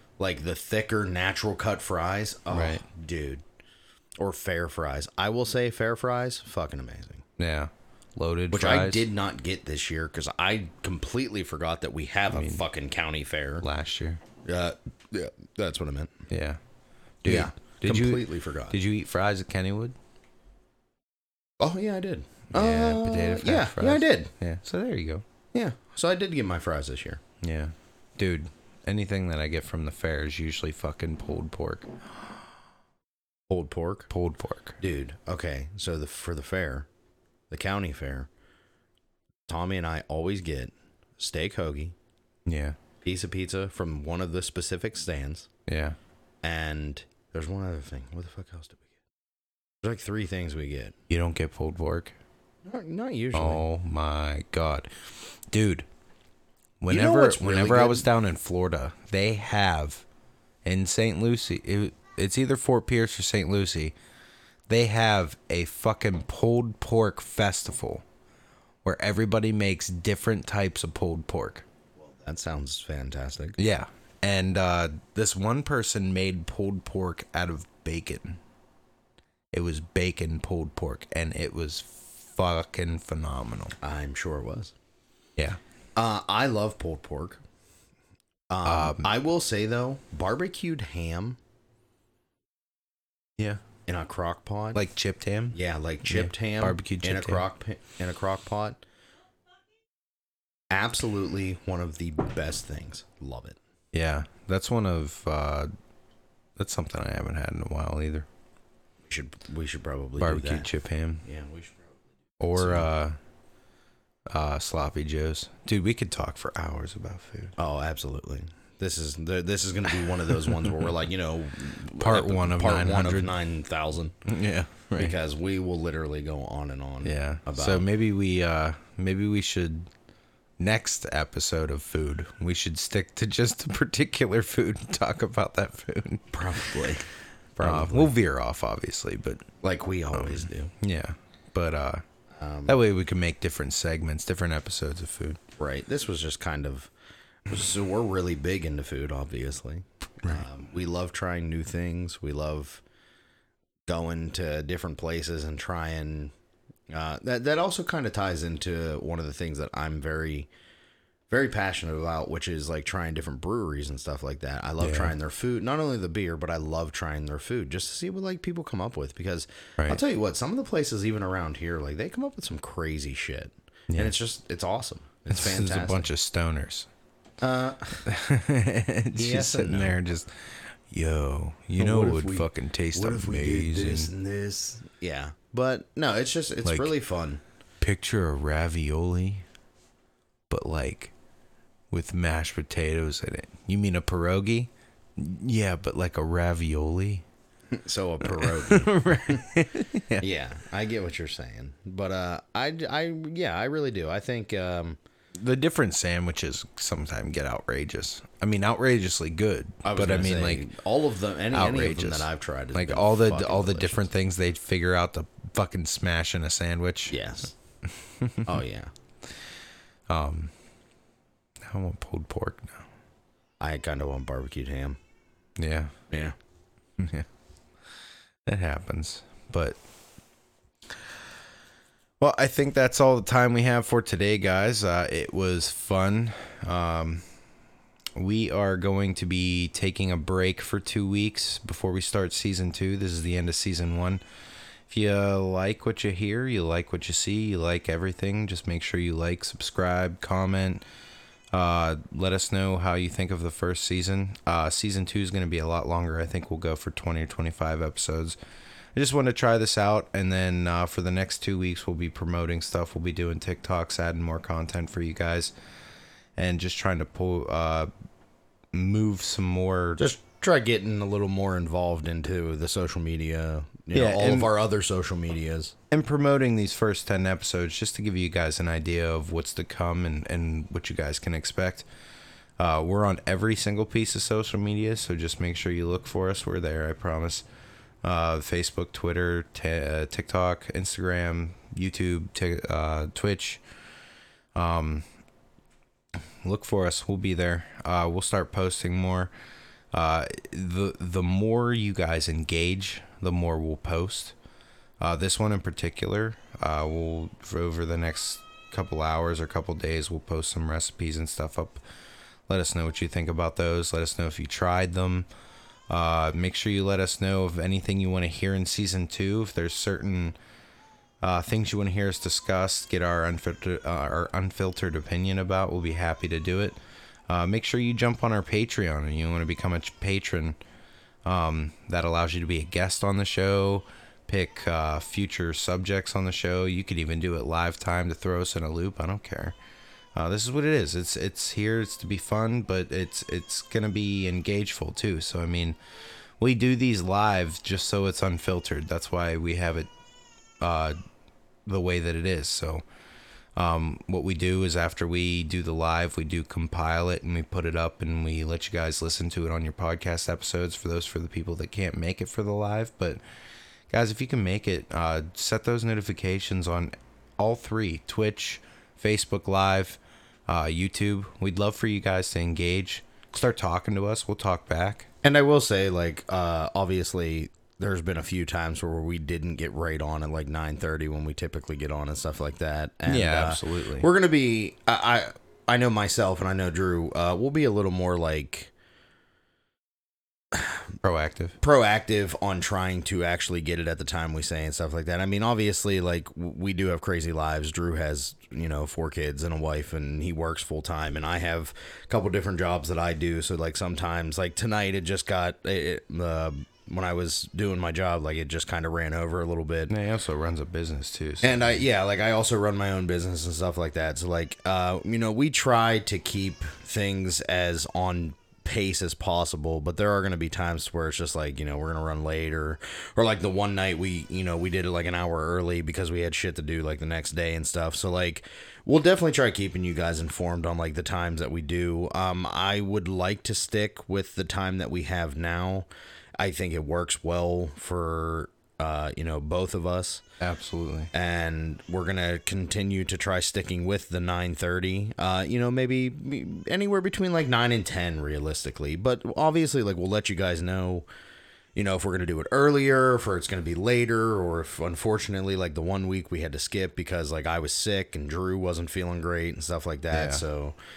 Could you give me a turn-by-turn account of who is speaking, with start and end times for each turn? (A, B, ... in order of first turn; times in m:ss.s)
0:00.2-0:03.4 A
0:02.5-0:02.8 B
0:04.2-0:07.2 A
0:07.4-0:09.1 B
0:08.5-0:13.7 A
0:12.3-0:12.6 B
0:13.6-0:14.2 B
0:14.4-0:16.1 A
0:16.3-0:16.6 B
0:17.2-0:19.9 B
0:17.2-0:18.8 A
0:21.6-0:24.3 A
0:22.5-0:25.2 B
0:25.5-0:27.2 A
0:27.4-0:31.9 B
0:33.5-0:34.1 A
0:34.1-0:34.8 B
0:34.8-0:36.9 A
0:37.5-0:38.3 A
0:39.5-0:41.9 A
0:42.4-0:42.8 B
0:43.0-0:45.5 A
0:45.7-0:46.0 B
0:46.4-0:48.9 A
0:49.8-0:50.9 A
0:51.1-0:52.1 B
0:52.6-0:53.6 A
0:53.3-0:55.8 B
0:56.8-1:00.0 B
0:56.9-0:58.1 A
1:00.6-1:03.9 B
1:04.7-1:08.0 B
1:08.8-1:11.6 B
1:12.0-1:13.6 A
1:13.6-1:18.4 B
1:19.5-1:23.8 B
1:23.8-1:24.7 A
1:26.0-1:27.4 A
1:28.5-1:31.4 A
1:28.6-1:29.1 B
1:33.9-1:34.8 A
1:34.7-1:37.4 B
1:35.5-1:38.8 A
1:40.7-1:43.6 A
1:43.9-1:45.7 B
1:46.6-1:48.3 B
1:49.1-1:50.7 A
1:50.2-1:51.2 B
1:51.2-1:51.9 A
1:52.4-1:53.2 B
1:52.5-1:52.9 A
1:54.3-1:57.5 B
1:57.6-2:04.1 A
2:02.0-2:03.3 B
2:04.2-2:05.1 B
2:05.0-2:07.9 A
2:07.0-2:09.9 B
2:10.6-2:16.6 B
2:16.3-2:18.1 A
2:17.6-2:19.4 B
2:19.6-2:20.7 A
2:20.1-2:22.0 B
2:22.4-2:22.8 A
2:22.7-2:25.4 B
2:25.6-2:26.9 A
2:27.5-2:32.8 A
2:33.9-2:36.3 A
2:36.9-2:40.5 A
2:41.3-2:56.1 A
2:44.8-2:45.1 B
2:55.3-2:56.9 B
2:57.4-2:58.0 A
2:58.0-3:04.1 B
2:59.2-3:00.0 A
3:01.8-3:07.4 A
3:06.6-3:06.9 B
3:07.8-3:09.4 B
3:10.5-3:11.1 B
3:11.9-3:17.2 B
3:17.7-3:19.5 A
3:18.2-3:20.2 B
3:20.2-3:25.0 A
3:25.3-3:30.7 B
3:29.8-3:34.0 A
3:31.5-3:37.2 B
3:37.1-3:37.6 A
3:38.0-3:38.6 B
3:38.4-3:38.9 A
3:40.1-3:40.5 B
3:41.6-3:42.9 B
3:43.6-3:45.0 A
3:45.6-3:45.9 B
3:46.1-3:46.4 A
3:47.0-3:47.3 B
3:48.4-3:49.8 B
3:52.2-3:57.2 B
3:58.2-4:04.2 B
4:04.9-4:10.8 B
4:11.5-4:18.4 B
4:18.9-4:25.5 B
4:26.4-4:27.9 B
4:28.7-4:30.1 B
4:30.0-4:35.7 A
4:33.9-4:34.5 B
4:35.9-4:41.8 B
4:42.6-4:47.4 B
4:48.0-4:53.6 B
4:54.5-4:55.0 B
4:56.4-4:59.3 B
4:59.9-5:04.3 B
5:05.0-5:11.8 B
5:12.5-5:15.3 B
5:15.9-5:20.4 B
5:21.2-5:30.6 B
5:31.2-5:39.6 B
5:40.1-5:45.8 B
5:46.4-5:49.9 B
5:50.6-5:51.0 B
5:51.6-5:52.8 B
5:53.6-6:03.2 B
6:03.9-6:15.1 B
6:15.2-6:28.7 A
6:23.1-6:24.1 B
6:30.5-6:30.8 A
6:31.0-6:31.6 B
6:31.6-6:49.9 A
6:49.9-6:51.7 B
6:51.4-7:15.9 A
7:16.4-7:20.2 A
7:20.4-7:21.1 B
7:21.1-7:31.0 A
7:31.7-7:40.8 A
7:40.1-7:40.4 B